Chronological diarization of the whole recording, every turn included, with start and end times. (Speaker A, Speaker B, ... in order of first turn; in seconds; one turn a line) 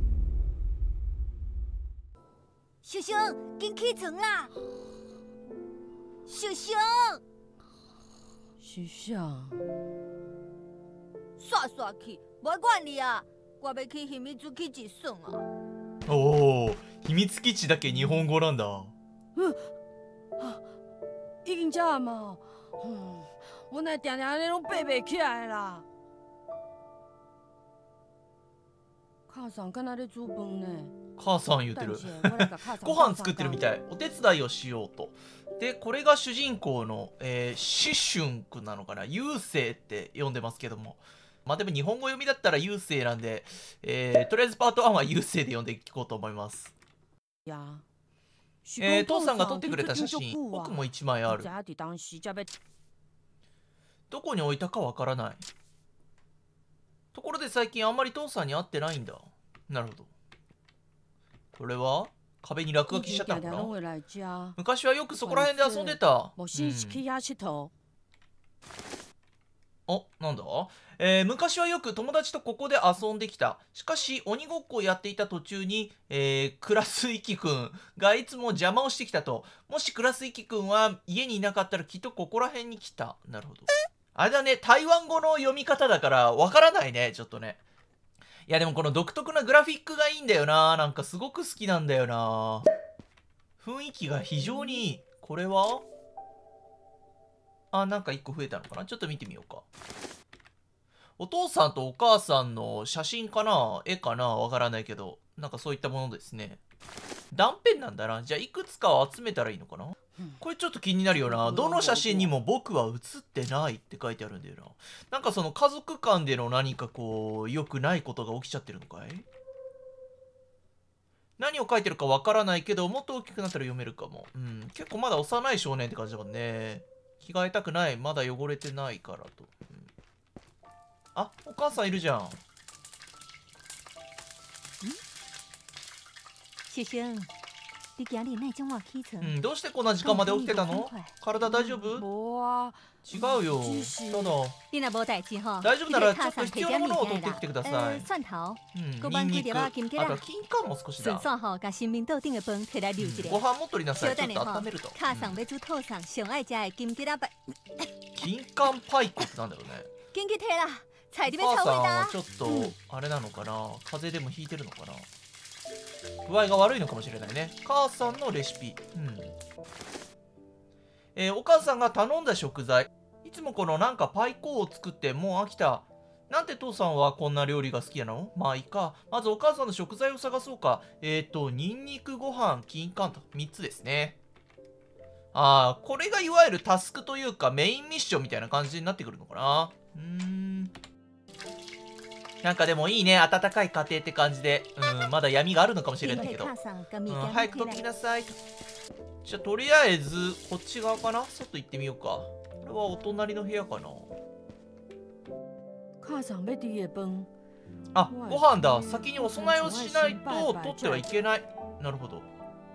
Speaker A: 2.8-4.5
Speaker A: 6.2-7.2
Speaker B: 8.6-9.6
Speaker A: 11.4-15.4
Speaker C: 16.1-18.9
Speaker B: 17.9-18.2
Speaker B: 19.3-19.7
Speaker B: 20.4-20.6
Speaker B: 21.4-25.8
Speaker B: 29.3-30.9
Speaker C: 31.2-46.7
Speaker B: 31.8-33.6
Speaker B: 47.5-47.8
Speaker B: 48.6-52.5
Speaker C: 48.8-51.5
Speaker C: 54.1-55.4
Speaker C: 57.1-60.1
Speaker C: 61.5-63.8
Speaker B: 62.9-64.6
Speaker C: 64.6-67.0
Speaker B: 65.2-67.7
Speaker C: 69.9-87.6
Speaker C: 88.5-92.7
Speaker C: 93.6-95.8
Speaker B: 94.5-94.8
Speaker C: 97.7-99.6
Speaker C: 101.2-106.6
Speaker C: 107.3-119.2
Speaker B: 111.2-112.3
Speaker C: 121.4-129.9
Speaker C: 131.2-132.4
Speaker A: 136.7-137.3
Speaker A: 138.0-139.4
Speaker C: 139.2-142.1
Speaker A: 140.0-141.1
Speaker B: 141.4-144.3
Speaker C: 143.0-144.6
Speaker A: 144.7-150.2
Speaker C: 145.6-148.1
Speaker C: 148.7-151.3
Speaker A: 151.0-153.4
Speaker C: 153.0-155.4
Speaker A: 154.0-157.9
Speaker C: 158.2-159.9
Speaker A: 160.1-162.7
Speaker C: 161.3-165.1
Speaker C: 166.2-169.3
Speaker C: 171.2-184.2
Speaker C: 185.3-190.7
Speaker C: 192.4-196.5
Speaker A: 196.0-197.8
Speaker C: 197.1-198.4
Speaker C: 199.2-204.1
Speaker B: 206.0-207.3
Speaker C: 207.9-212.2
Speaker B: 208.1-211.1